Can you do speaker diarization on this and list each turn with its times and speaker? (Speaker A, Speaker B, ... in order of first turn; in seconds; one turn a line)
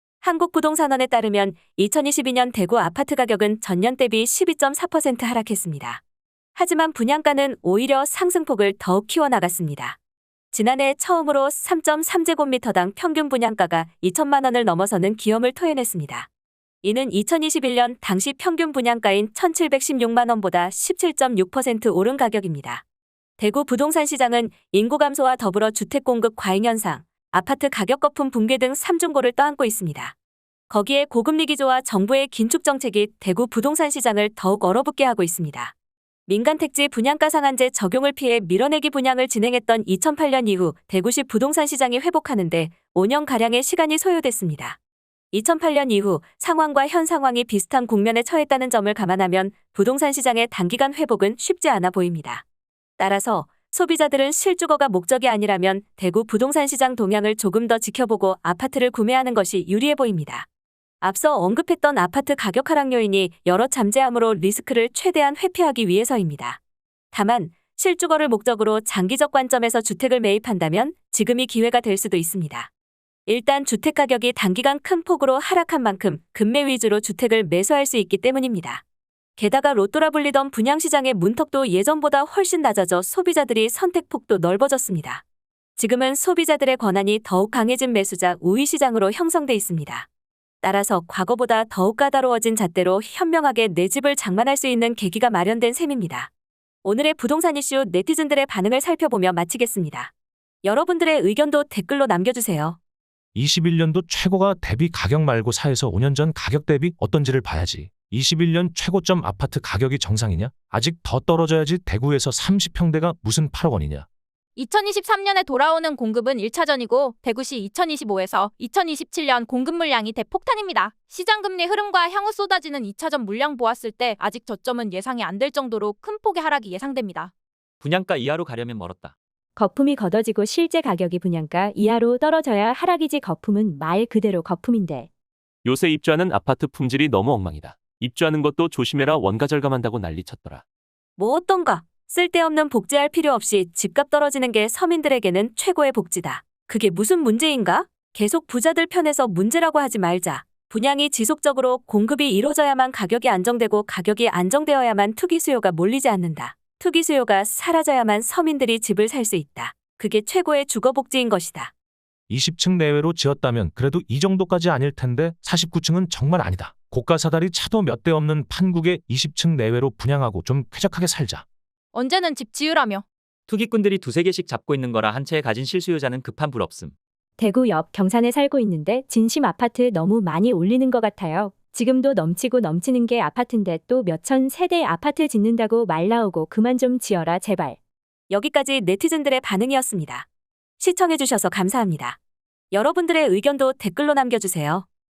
Speaker A: 0.2-6.0
Speaker A: 6.5-10.0
Speaker A: 10.5-16.3
Speaker A: 16.8-22.8
Speaker A: 23.4-30.1
Speaker A: 30.7-35.7
Speaker A: 36.3-44.8
Speaker A: 45.3-52.4
Speaker A: 53.0-60.5
Speaker A: 61.0-66.6
Speaker A: 67.1-72.7
Speaker A: 73.3-78.8
Speaker A: 79.4-85.2
Speaker A: 85.8-90.1
Speaker A: 90.6-96.3
Speaker A: 96.8-100.1
Speaker A: 100.6-102.8
Speaker B: 103.3-114.0
Speaker C: 114.5-127.3
Speaker D: 127.8-129.1
Speaker E: 129.6-135.1
Speaker F: 135.6-140.6
Speaker A: 141.2-161.7
Speaker B: 162.3-171.4
Speaker C: 171.9-173.0
Speaker D: 173.5-176.9
Speaker E: 177.4-187.8
Speaker A: 188.3-190.3
Speaker A: 190.8-192.2
Speaker A: 192.7-194.8